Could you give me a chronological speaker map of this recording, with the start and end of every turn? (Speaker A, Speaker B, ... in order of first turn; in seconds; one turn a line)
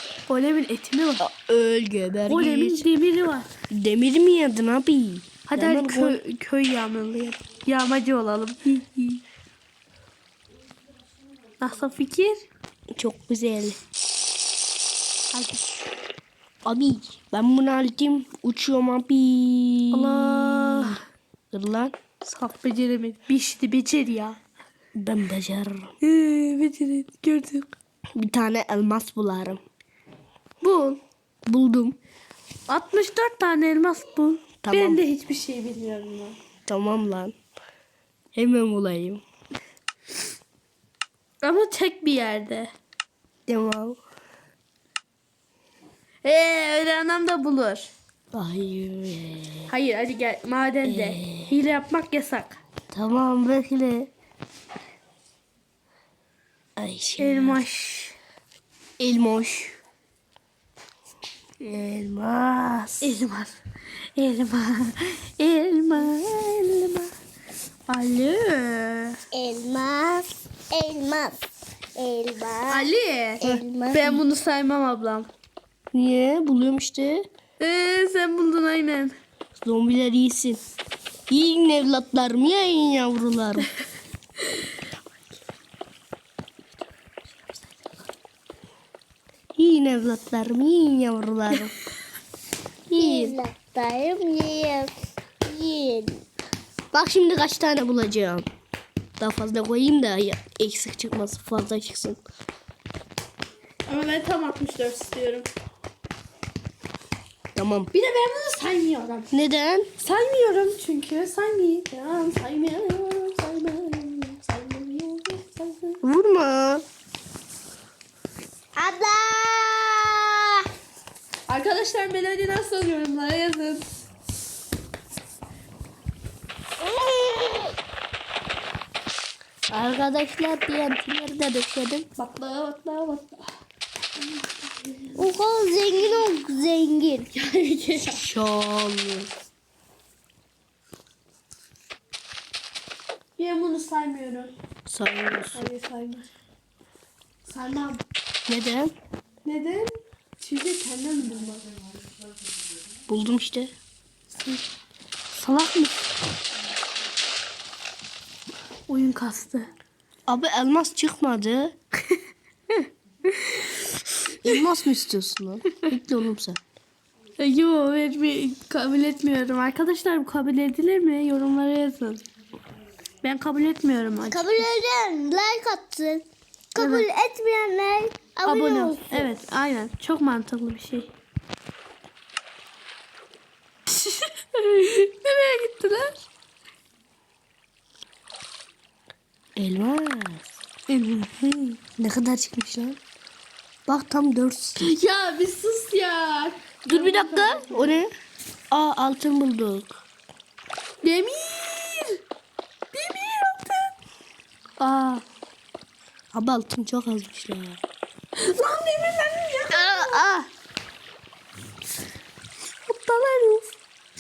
Speaker A: 0.3-1.3
Speaker B: 1.2-2.9
Speaker A: 2.3-3.5
Speaker B: 3.7-6.2
Speaker A: 5.5-9.2
Speaker A: 11.6-12.4
Speaker B: 12.9-13.8
Speaker A: 15.3-15.7
Speaker B: 16.6-21.0
Speaker A: 19.9-21.0
Speaker B: 21.5-22.0
Speaker A: 22.2-24.4
Speaker B: 25.0-25.9
Speaker A: 26.0-27.7
Speaker B: 28.2-29.6
Speaker A: 30.6-31.0
Speaker B: 31.5-32.0
Speaker A: 32.7-36.4
Speaker B: 34.6-35.0
Speaker B: 36.7-37.4
Speaker B: 38.3-39.2
Speaker A: 41.4-42.7
Speaker B: 43.5-44.0
Speaker A: 46.2-47.9
Speaker B: 48.3-49.7
Speaker A: 49.7-52.6
Speaker B: 50.8-51.5
Speaker B: 52.9-54.1
Speaker B: 56.8-57.6
Speaker A: 57.2-58.2
Speaker B: 59.0-59.8
Speaker B: 61.6-63.2
Speaker A: 63.0-63.6
Speaker A: 64.2-67.1
Speaker A: 67.9-69.2
Speaker C: 69.3-71.4
Speaker C: 72.0-74.2
Speaker A: 72.7-75.3
Speaker B: 75.9-77.3
Speaker A: 77.6-79.2
Speaker B: 79.6-80.6
Speaker B: 81.3-83.7
Speaker B: 89.5-91.7
Speaker B: 92.9-93.4
Speaker C: 93.0-96.2
Speaker B: 96.9-98.5
Speaker B: 99.2-102.2
Speaker A: 103.9-105.5
Speaker B: 107.5-107.9
Speaker A: 107.9-109.3
Speaker B: 109.3-109.9
Speaker A: 110.0-116.0
Speaker B: 116.0-116.8
Speaker C: 118.8-120.6
Speaker A: 121.5-123.9
Speaker C: 127.3-127.6
Speaker B: 129.7-132.1
Speaker A: 132.2-133.6
Speaker A: 134.2-135.2
Speaker C: 135.2-137.3
Speaker A: 137.3-138.3
Speaker B: 138.2-139.3
Speaker A: 143.4-144.5
Speaker B: 144.9-145.7
Speaker A: 145.5-146.3
Speaker A: 147.4-148.0
Speaker B: 148.5-148.9
Speaker A: 149.4-151.7
Speaker B: 153.1-153.7
Speaker A: 154.3-154.6
Speaker A: 155.3-155.9
Speaker A: 158.9-159.7
Speaker B: 160.3-161.7
Speaker A: 163.3-163.9
Speaker B: 164.4-166.6
Speaker A: 167.4-172.2
Speaker A: 173.2-174.7
Speaker C: 174.3-179.3
Speaker A: 176.8-177.1
Speaker A: 178.5-181.1
Speaker A: 183.9-186.3
Speaker B: 189.6-193.0
Speaker B: 193.9-194.9
Speaker A: 194.8-197.9
Speaker B: 196.9-198.1
Speaker B: 198.7-200.0
Speaker A: 201.0-202.2
Speaker A: 202.9-203.9
Speaker A: 204.8-205.2
Speaker B: 206.3-207.8
Speaker A: 208.4-210.3
Speaker B: 209.7-210.5
Speaker A: 212.8-213.8